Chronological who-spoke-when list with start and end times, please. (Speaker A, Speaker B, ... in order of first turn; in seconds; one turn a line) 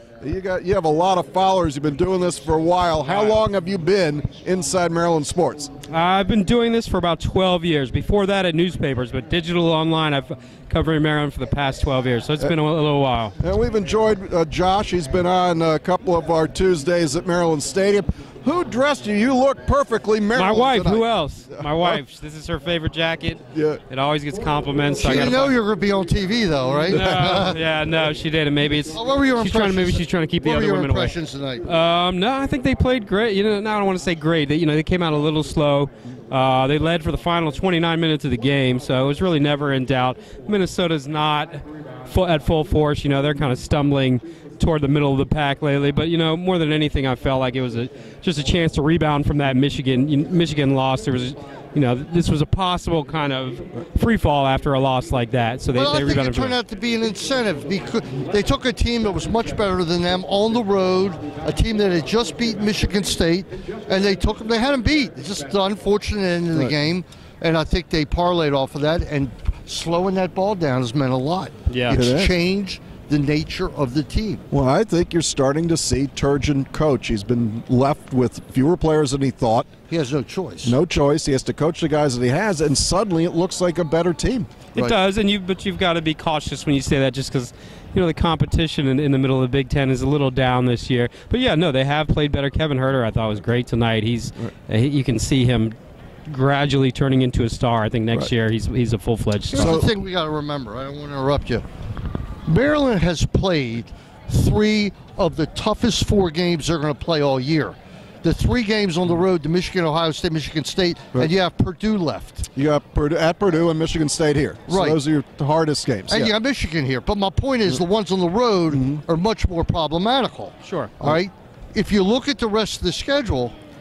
Speaker A: 0.2-5.7
Speaker B: 3.1-3.3
Speaker B: 5.9-13.3
Speaker A: 13.4-22.0
Speaker B: 20.3-25.6
Speaker A: 23.5-23.8
Speaker C: 24.9-27.6
Speaker B: 26.7-56.6
Speaker A: 26.9-27.2
Speaker C: 28.9-31.7
Speaker C: 55.7-74.4
Speaker B: 71.7-72.0
Speaker A: 71.9-72.3
Speaker A: 74.5-79.7
Speaker C: 79.9-80.8
Speaker A: 80.6-84.5
Speaker B: 84.7-95.7
Speaker B: 96.3-99.8
Speaker C: 99.5-101.6
Speaker A: 99.5-99.9
Speaker C: 102.5-112.5
Speaker A: 112.5-116.3
Speaker C: 114.7-115.0
Speaker C: 116.1-123.5
Speaker A: 118.7-119.0
Speaker B: 120.6-120.9